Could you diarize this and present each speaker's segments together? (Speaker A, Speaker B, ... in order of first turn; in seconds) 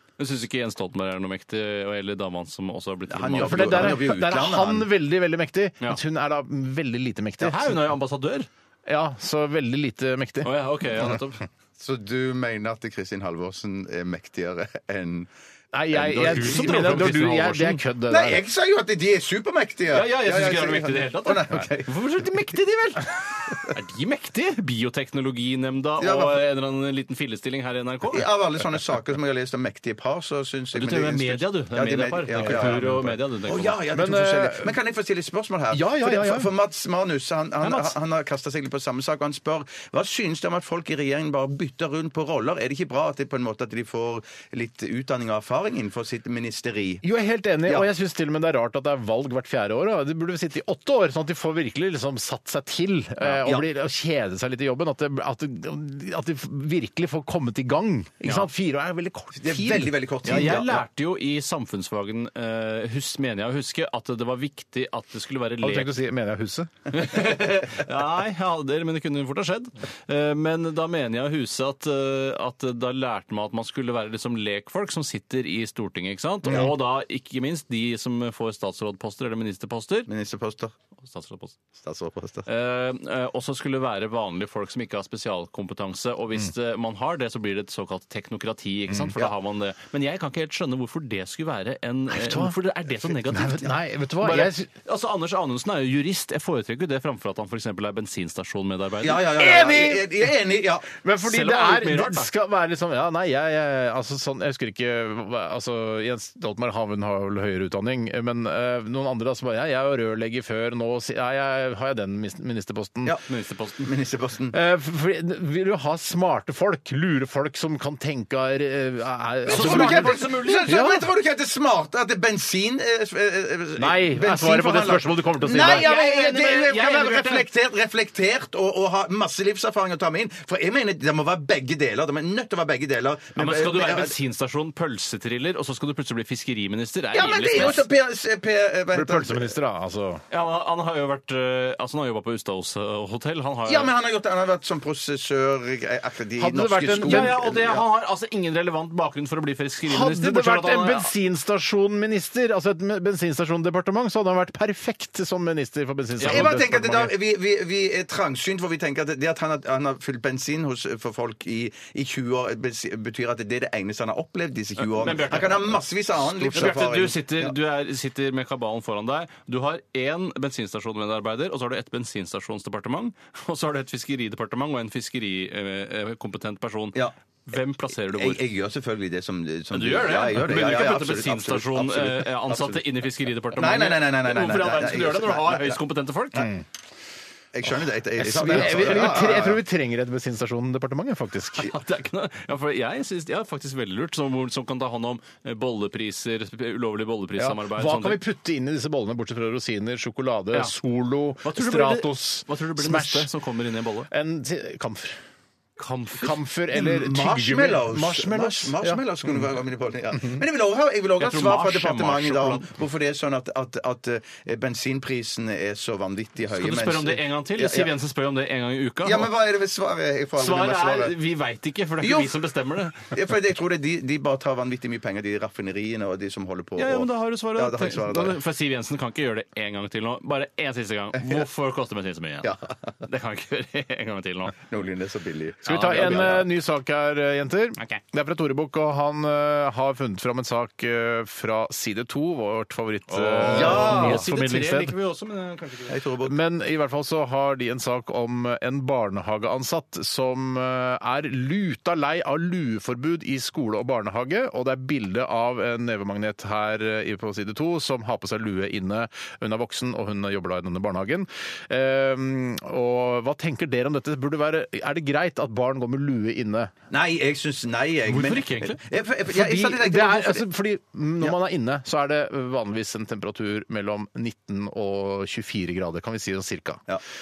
Speaker A: 0.2-4.0, 7.4-8.5, 10.4-11.5, 16.0-17.8, 19.9-28.3, 30.7-33.8, 37.6-38.0, 60.2-65.9, 66.9-80.1, 81.0-81.6, 82.5-99.4, 101.2-102.3, 113.3-113.9, 119.5-120.8, 125.5-127.5, 133.4-137.8, 140.3-143.9, 146.9-151.1, 156.2-156.5, 164.8-165.8, 166.5-178.4, 179.7-186.5, 191.6-198.2, 201.4-204.1, 205.8-206.4, 211.2-212.7, 216.5-219.3, 220.4-223.1, 226.8-234.6, 235.7-236.4, 243.1-246.0, 268.1-268.8
Speaker B: 3.1-4.9, 11.8-15.3, 16.0-17.1, 18.1-21.9, 26.0-26.4, 28.1-47.0, 53.2-53.7, 59.4-60.8, 80.1-80.7, 81.8-82.5, 99.0-100.9, 113.8-114.6, 119.5-134.2, 137.1-139.5, 143.7-147.9, 156.2-167.6, 177.9-182.9, 183.5-185.8, 187.6-189.6, 206.7-217.9, 219.0-221.2, 222.0-222.4, 223.1-228.4, 232.4-232.8, 234.6-236.5, 243.5-244.2, 245.9-246.3, 266.9-270.5
Speaker C: 3.4-7.8, 8.9-11.1, 15.7-18.4, 32.4-33.1, 33.9-34.8, 35.7-36.5, 47.0-60.0, 65.6-66.8, 92.1-92.5, 93.2-94.7, 99.3-100.4, 100.9-113.2, 114.5-121.1, 123.8-125.9, 137.6-137.8, 138.9-140.2, 146.4-147.4, 149.9-157.1, 166.4-166.8, 188.2-191.7, 197.4-203.3, 204.1-205.2, 206.1-209.0, 235.7-245.0, 246.2-266.7, 269.3-276.8